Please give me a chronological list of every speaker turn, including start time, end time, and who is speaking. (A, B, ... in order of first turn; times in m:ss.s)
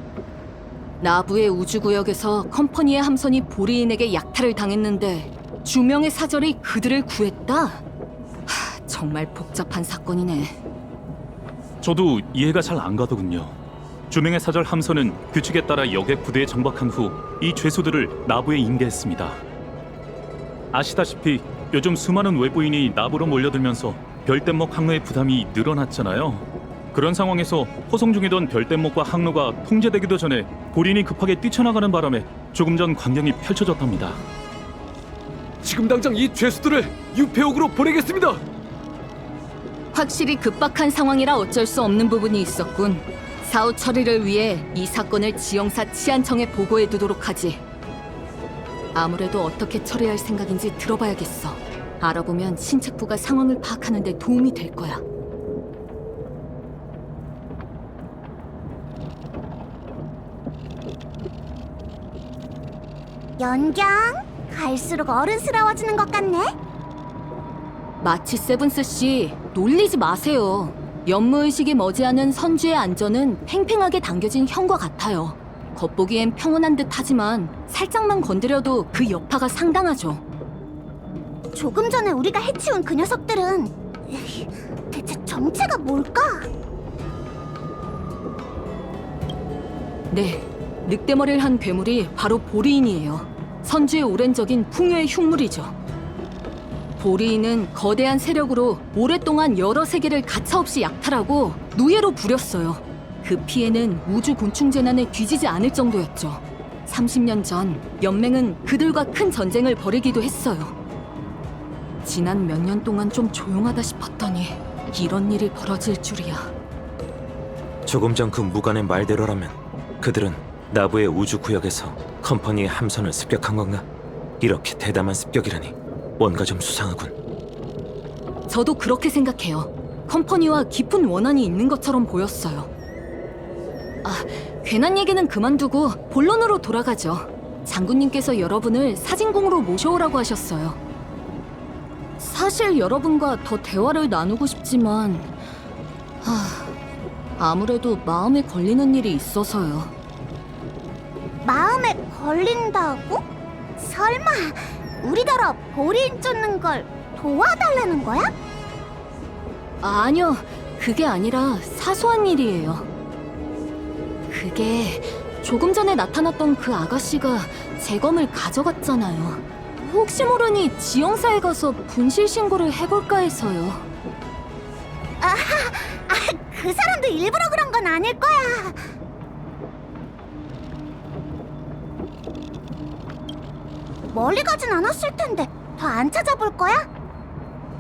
0:01.0-0:07.8 A
0:08.5-0:10.6 A
0:11.8-0:13.6 B
0:14.1-0:19.4 B
0:20.7-0:34.2 B
0:35.6-0:38.4 C
0:39.9-0:47.6 A
0:48.9-0:55.0 A
1:03.4-1:06.6 D
1:08.0-1:20.2 A
1:21.6-1:26.5 D
1:30.1-1:35.7 A
1:37.0-1:50.8 A
1:52.0-1:56.5 A
1:57.9-2:03.9 E
2:04.4-2:07.1 E
2:08.5-2:12.7 A
2:14.0-2:20.8 A
2:22.2-2:25.3 A
2:26.2-2:26.7 A
2:27.4-2:29.9 A
2:31.4-2:33.2 D
2:33.8-2:38.3 D
2:39.8-2:42.9 A
2:44.3-2:53.8 A
2:55.2-2:58.8 D
3:04.1-3:06.8 D